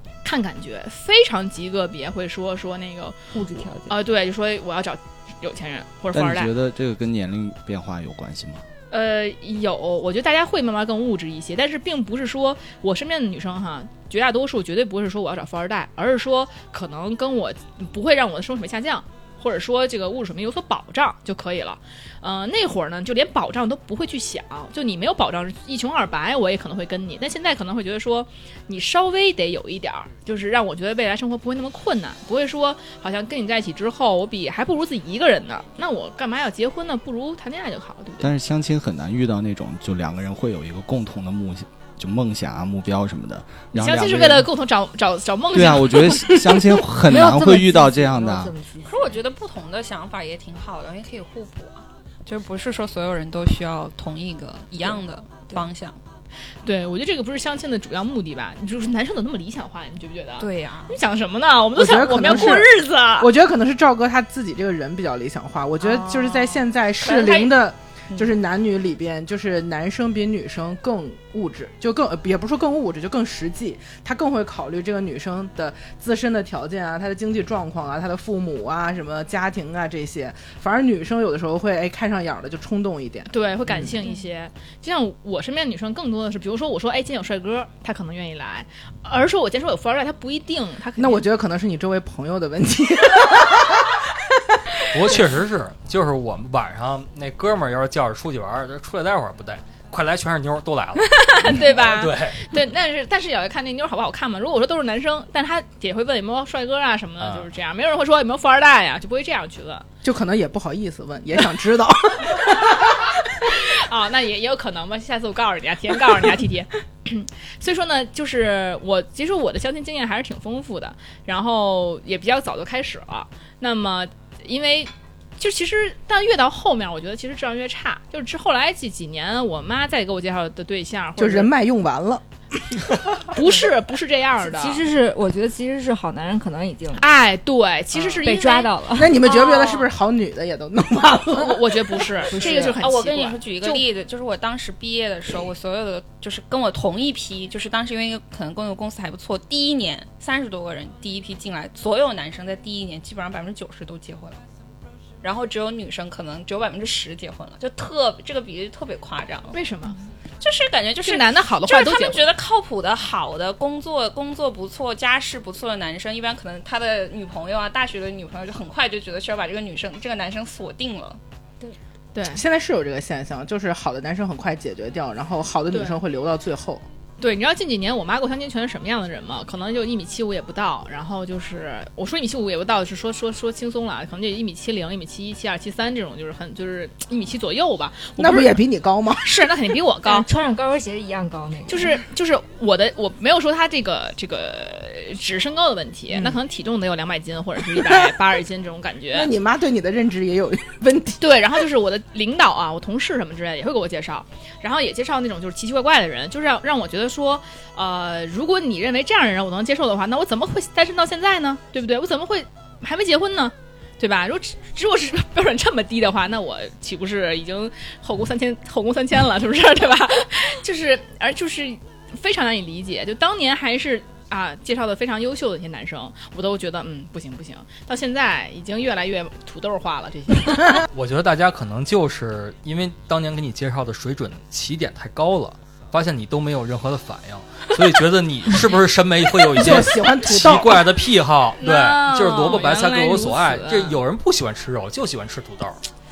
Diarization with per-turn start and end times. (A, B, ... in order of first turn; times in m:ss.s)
0:00.2-0:03.2 A
0:03.3-0:04.0 B
0:03.9-0:06.5 A
0:06.1-0:08.6 C
0:08.9-0:38.3 A
0:38.2-0:44.5 C
0:43.7-0:46.7 A
0:45.5-0:48.5 C
0:47.0-0:49.0 B
0:48.8-0:56.0 D
0:56.6-1:03.3 A
1:00.4-1:01.0 D
1:01.8-1:24.0 E
1:05.8-1:07.6 A
1:23.3-1:31.3 A
1:31.0-1:34.1 E
1:34.9-1:42.6 F
1:41.0-1:49.9 A
1:47.2-1:47.5 F
1:50.0-1:53.2 E
1:53.4-2:11.5 A
2:11.2-2:12.2 E
2:13.3-2:14.8 A
2:14.4-2:17.1 B
2:17.0-2:19.9 A
2:18.1-2:19.2 B
2:19.0-2:22.4 E
2:21.3-2:23.8 A
2:22.3-2:22.8 B
2:22.4-2:34.4 D
2:35.2-2:39.6 D
2:39.5-2:40.0 A
2:40.4-2:51.2 D
2:41.0-2:42.3 A
2:52.2-2:52.4 A
2:52.3-2:56.8 E
2:55.7-2:56.0 A
2:57.2-3:08.6 A
3:08.2-3:09.3 E
3:09.2-3:10.3 A
3:10.0-3:12.0 B
3:11.7-3:19.3 A
3:16.1-3:16.4 E
3:17.8-3:18.1 E
3:19.1-3:21.2 E
3:21.2-3:50.8 A
3:50.9-4:05.8 F
3:59.5-4:00.9 E
4:01.6-4:04.0 A